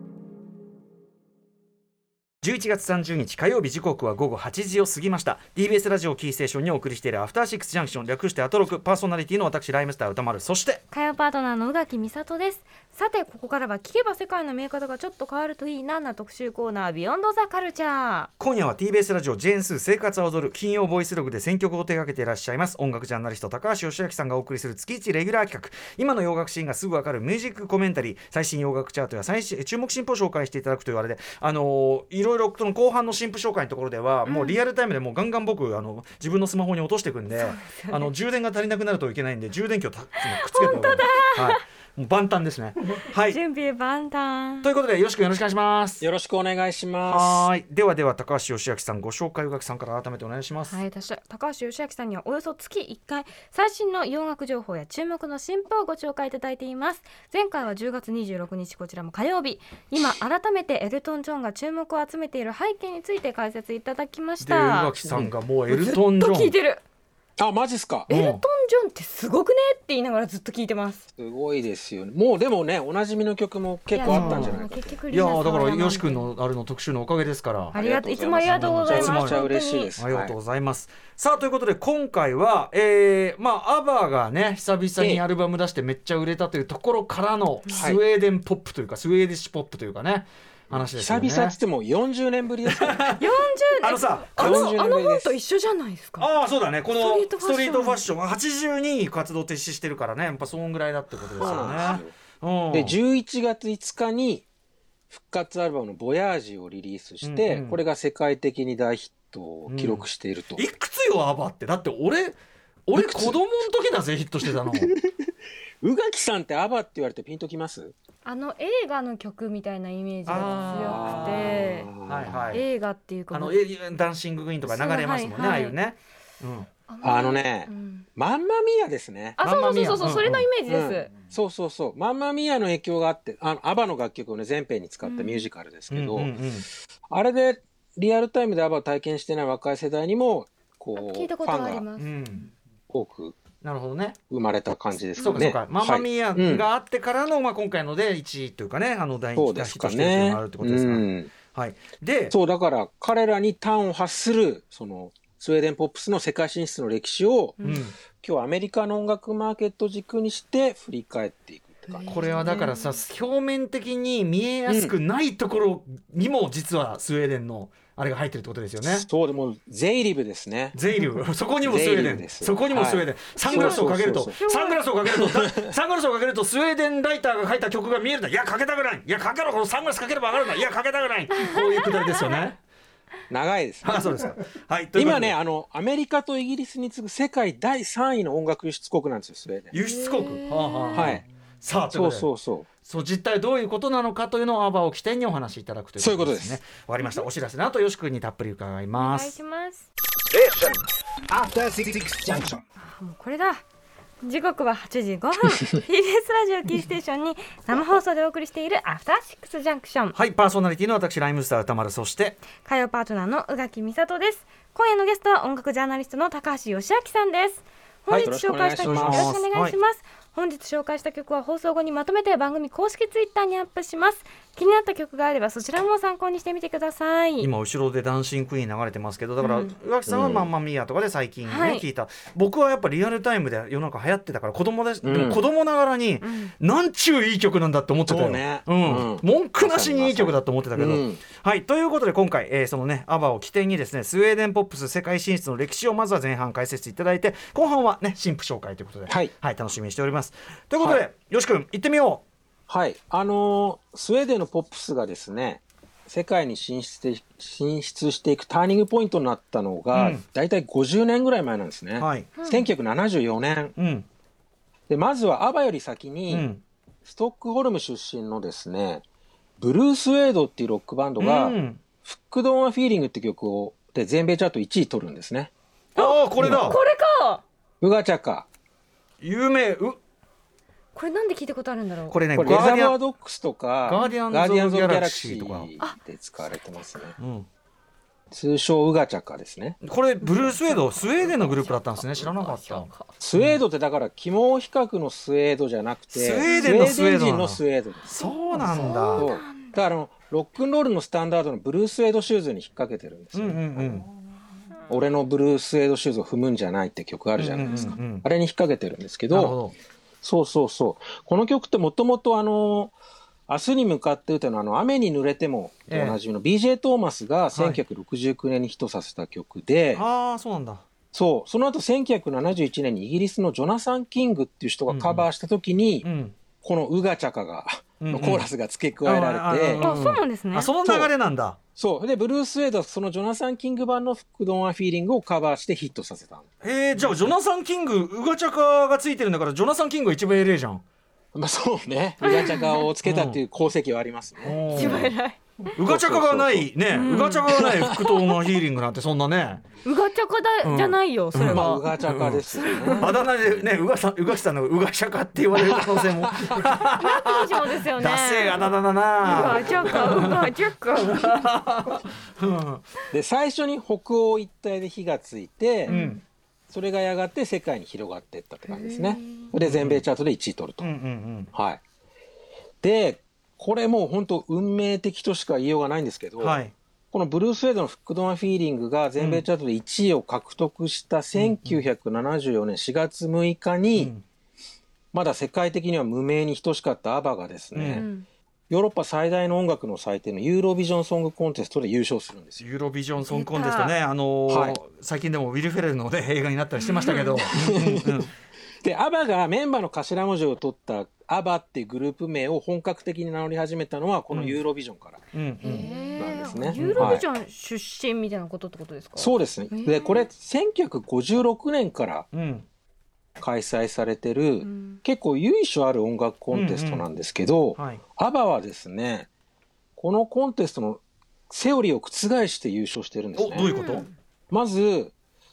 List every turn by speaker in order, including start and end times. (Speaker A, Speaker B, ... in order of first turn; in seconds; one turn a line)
Speaker A: 2.4-10.8
Speaker B: 10.9-18.3
Speaker A: 18.4-43.4
Speaker B: 34.2-34.6
Speaker B: 37.4-38.1
Speaker B: 40.3-41.6
Speaker B: 43.0-44.7
Speaker A: 44.6-46.0
Speaker C: 46.0-47.5
Speaker A: 47.0-50.8
Speaker B: 50.7-66.8
Speaker A: 64.4-66.5
Speaker C: 67.4-68.1
Speaker A: 68.1-68.4
Speaker B: 68.1-71.0
Speaker C: 71.2-75.0
Speaker B: 73.9-76.3
Speaker A: 74.1-77.7
Speaker B: 77.7-79.9
Speaker C: 77.7-80.3
Speaker A: 78.4-91.5
Speaker C: 85.0-85.2
Speaker C: 87.7-88.0
Speaker C: 90.7-93.1
Speaker A: 92.6-94.8
Speaker B: 93.2-96.3
Speaker C: 94.4-95.4
Speaker A: 96.2-103.0
Speaker B: 96.9-98.0
Speaker C: 101.3-102.2
Speaker B: 101.4-102.0
Speaker C: 102.7-104.4
Speaker C: 105.1-110.6
Speaker A: 107.2-107.8
Speaker A: 109.7-114.9
Speaker C: 112.9-113.4
Speaker C: 114.7-115.2
Speaker C: 115.8-117.9
Speaker B: 118.2-121.9
Speaker A: 120.2-122.6
Speaker C: 120.6-122.5
Speaker B: 122.5-123.6
Speaker A: 123.3-126.7
Speaker B: 124.7-125.8
Speaker B: 126.9-128.1
Speaker C: 127.0-129.4
Speaker A: 129.4-130.4
Speaker B: 129.4-131.1
Speaker C: 130.7-136.3
Speaker B: 135.0-135.4
Speaker A: 135.9-136.7
Speaker C: 137.1-141.8
Speaker B: 140.9-142.5
Speaker A: 142.0-142.5
Speaker C: 142.9-143.3
Speaker A: 143.6-144.2
Speaker C: 144.3-146.7
Speaker B: 145.2-145.4
Speaker A: 145.2-152.3
Speaker C: 149.3-151.3
Speaker C: 152.3-157.6
Speaker B: 157.6-157.8
Speaker A: 157.6-157.9
Speaker C: 158.1-162.2
Speaker B: 161.9-163.0
Speaker A: 162.1-169.1
Speaker C: 164.7-164.9
Speaker C: 168.8-170.8
Speaker A: 170.7-182.6
Speaker C: 171.6-174.4
Speaker B: 173.5-174.9
Speaker C: 175.1-175.7
Speaker B: 181.3-182.4
Speaker C: 183.3-184.0
Speaker A: 183.8-185.3
Speaker C: 184.9-189.7
Speaker A: 189.7-192.3
Speaker B: 189.7-191.2
Speaker C: 190.9-191.2
Speaker C: 191.9-192.7
Speaker A: 192.8-199.3
Speaker C: 196.0-196.6
Speaker B: 197.0-197.2
Speaker B: 198.9-199.9
Speaker D: 200.3-202.6
Speaker B: 202.8-203.6
Speaker B: 204.2-210.2
Speaker A: 210.1-212.4
Speaker B: 212.6-227.5
Speaker C: 218.1-219.4
Speaker A: 218.8-219.8
Speaker A: 227.4-252.2
Speaker B: 229.4-229.7
Speaker C: 230.1-230.5
Speaker B: 231.4-231.8
Speaker C: 235.0-235.4
Speaker B: 236.2-236.5
Speaker C: 238.1-241.2
Speaker C: 252.7-263.7
Speaker A: 259.9-260.2
Speaker A: 262.0-262.3
Speaker B: 262.4-262.6
Speaker A: 263.8-264.1
Speaker C: 264.9-266.5
Speaker A: 266.3-266.6
Speaker C: 267.0-269.0
Speaker C: 269.6-275.5
Speaker A: 271.2-271.8
Speaker A: 275.9-276.8
Speaker B: 275.9-277.4
Speaker C: 276.4-276.7
Speaker C: 277.8-278.4
Speaker A: 279.2-280.0
Speaker B: 280.9-282.2
Speaker A: 282.1-283.0
Speaker C: 282.4-287.2
Speaker A: 283.8-285.7
Speaker A: 287.2-287.5
Speaker C: 288.3-289.8
Speaker A: 289.8-293.6
Speaker B: 290.2-293.1
Speaker C: 293.2-298.1
Speaker A: 296.1-299.3
Speaker B: 296.4-296.8
Speaker B: 298.2-299.7
Speaker C: 299.1-304.0
Speaker A: 303.3-304.1
Speaker C: 304.9-309.6
Speaker A: 307.4-308.2
Speaker B: 307.6-307.9
Speaker A: 309.3-309.7
Speaker C: 310.2-312.9
Speaker C: 313.5-320.0
Speaker A: 315.9-316.2
Speaker A: 317.5-317.8
Speaker A: 319.9-320.8
Speaker C: 321.1-326.1
Speaker A: 324.9-325.3
Speaker A: 326.0-326.4
Speaker C: 326.6-329.8
Speaker A: 328.0-328.5
Speaker A: 329.0-331.6
Speaker B: 329.8-330.7
Speaker C: 330.8-331.1
Speaker C: 331.8-336.4
Speaker A: 336.6-340.8
Speaker C: 341.3-345.1
Speaker B: 342.2-342.9
Speaker A: 343.0-343.4
Speaker A: 344.4-345.1
Speaker B: 344.7-345.4
Speaker C: 345.6-346.7
Speaker A: 345.7-349.6
Speaker B: 346.9-347.5
Speaker C: 347.5-348.0
Speaker B: 349.8-351.9
Speaker A: 350.6-352.4
Speaker C: 351.4-353.6
Speaker B: 352.5-353.1
Speaker A: 353.0-362.9
Speaker C: 355.8-356.6
Speaker B: 356.9-361.5
Speaker C: 359.4-360.3
Speaker C: 363.1-365.9
Speaker B: 365.9-366.2
Speaker A: 365.9-366.2
Speaker C: 366.7-370.9
Speaker B: 368.7-369.5
Speaker A: 369.6-370.1
Speaker A: 370.8-371.5
Speaker C: 371.5-371.8
Speaker C: 372.8-376.6
Speaker A: 376.4-376.7
Speaker C: 377.1-384.1
Speaker A: 379.2-379.4
Speaker A: 381.3-381.9
Speaker A: 383.9-384.2
Speaker C: 385.1-388.1
Speaker A: 387.7-388.1
Speaker B: 387.9-388.2
Speaker C: 388.7-392.6
Speaker A: 392.6-398.3
Speaker B: 393.2-393.9
Speaker C: 394.5-394.8
Speaker B: 396.8-397.4
Speaker C: 397.4-398.3
Speaker C: 398.8-407.2
Speaker A: 404.3-404.6
Speaker A: 405.3-405.9
Speaker B: 405.6-410.3
Speaker A: 406.7-407.2
Speaker C: 409.2-412.3
Speaker A: 412.3-412.6
Speaker C: 413.4-419.3
Speaker B: 414.6-415.0
Speaker A: 416.5-417.0
Speaker A: 417.8-418.0
Speaker C: 420.0-423.7
Speaker A: 423.4-424.1
Speaker B: 423.6-424.1
Speaker C: 424.5-425.1